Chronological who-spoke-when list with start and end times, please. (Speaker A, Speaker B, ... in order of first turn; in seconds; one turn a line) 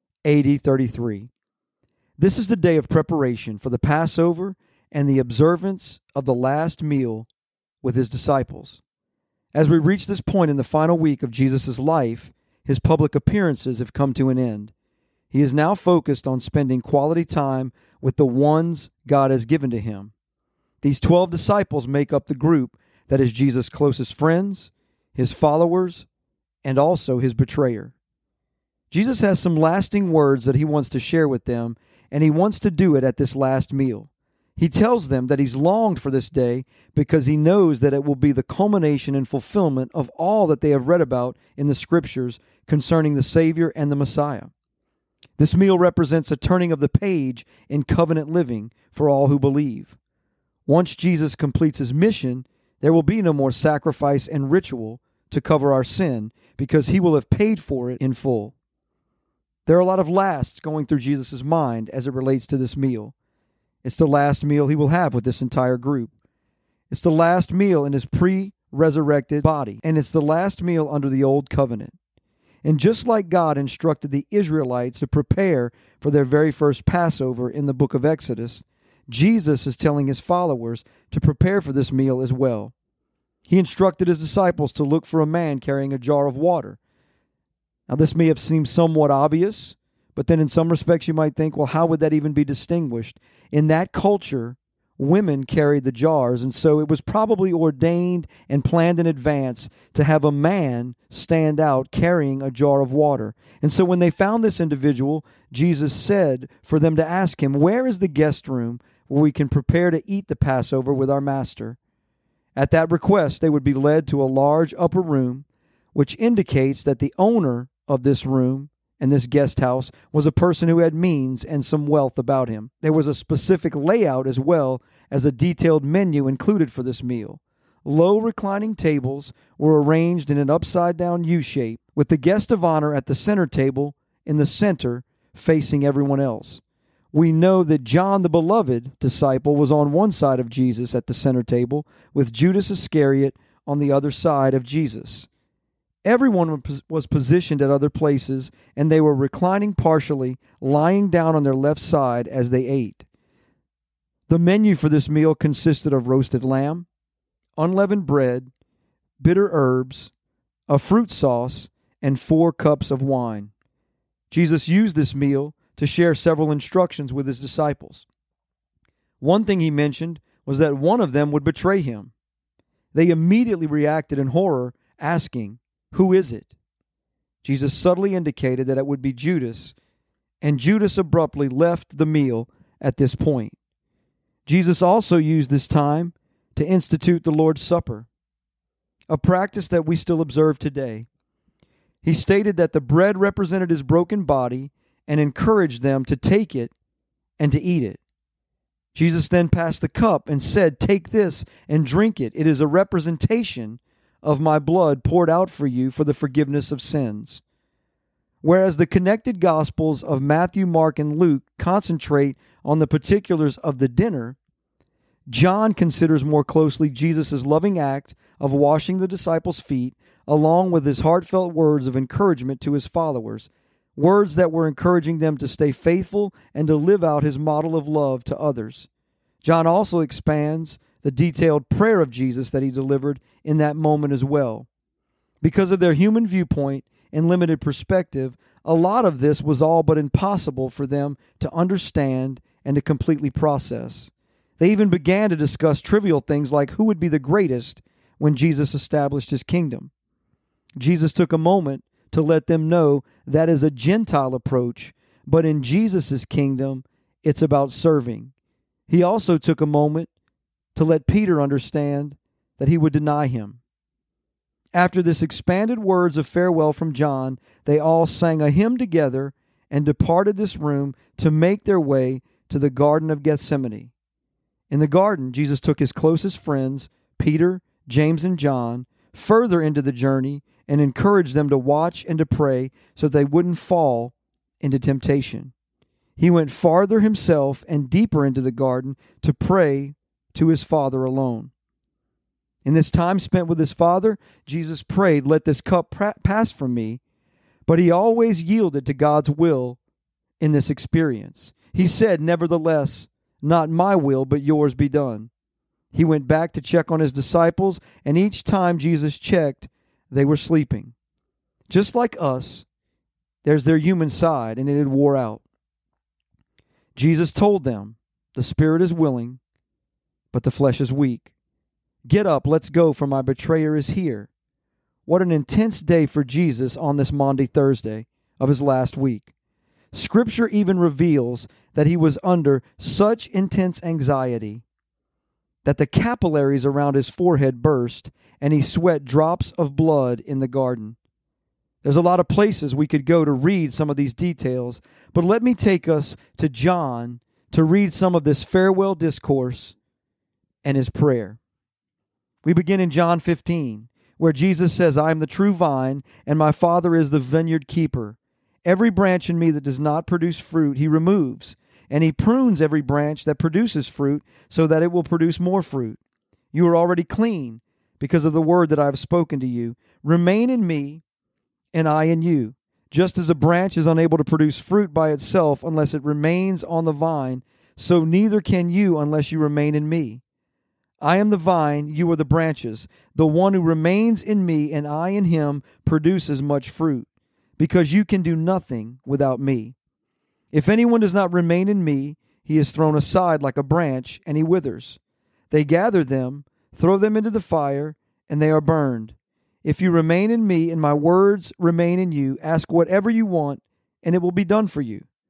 Speaker A: 0.2-1.3
Speaker A: 2.2-7.3
Speaker A: 7.8-8.8
Speaker A: 9.5-14.7
Speaker A: 15.3-20.1
Speaker A: 20.8-26.1
Speaker A: 26.6-27.9
Speaker A: 28.9-44.5
Speaker A: 45.4-50.0
Speaker A: 50.7-58.5
Speaker A: 59.7-63.1
Speaker A: 63.8-66.1
Speaker A: 66.9-72.0
Speaker A: 72.6-82.7
Speaker A: 83.5-86.8
Speaker A: 87.9-111.8
Speaker A: 112.6-145.3
Speaker A: 146.1-153.1
Speaker A: 154.3-156.9
Speaker A: 157.6-158.5
Speaker A: 159.2-160.1
Speaker A: 160.7-163.5
Speaker A: 164.3-168.1
Speaker A: 169.2-172.1
Speaker A: 172.9-176.5
Speaker A: 177.4-179.8
Speaker A: 180.4-183.6
Speaker A: 184.5-188.1
Speaker A: 189.1-191.1
Speaker A: 192.0-196.7
Speaker A: 197.4-198.0
Speaker A: 198.9-207.4
Speaker A: 208.4-214.4
Speaker A: 215.3-228.9
Speaker A: 229.4-234.7
Speaker A: 235.4-249.9
Speaker A: 250.8-258.3
Speaker A: 258.9-260.1
Speaker A: 260.8-263.6
Speaker A: 264.7-273.9
Speaker A: 274.7-285.5
Speaker A: 286.2-291.5
Speaker A: 292.6-297.0
Speaker A: 297.7-299.8
Speaker A: 300.4-305.3
Speaker A: 305.9-310.9
Speaker A: 311.7-312.7
Speaker A: 313.4-315.4
Speaker A: 317.0-319.4
Speaker A: 320.3-321.3
Speaker A: 322.1-324.3
Speaker A: 325.1-329.3
Speaker A: 329.9-334.6
Speaker A: 335.6-341.0
Speaker A: 341.8-349.8
Speaker A: 350.6-351.4
Speaker A: 352.4-366.0
Speaker A: 366.5-371.0
Speaker A: 371.7-380.2
Speaker A: 381.0-389.8
Speaker A: 390.5-405.1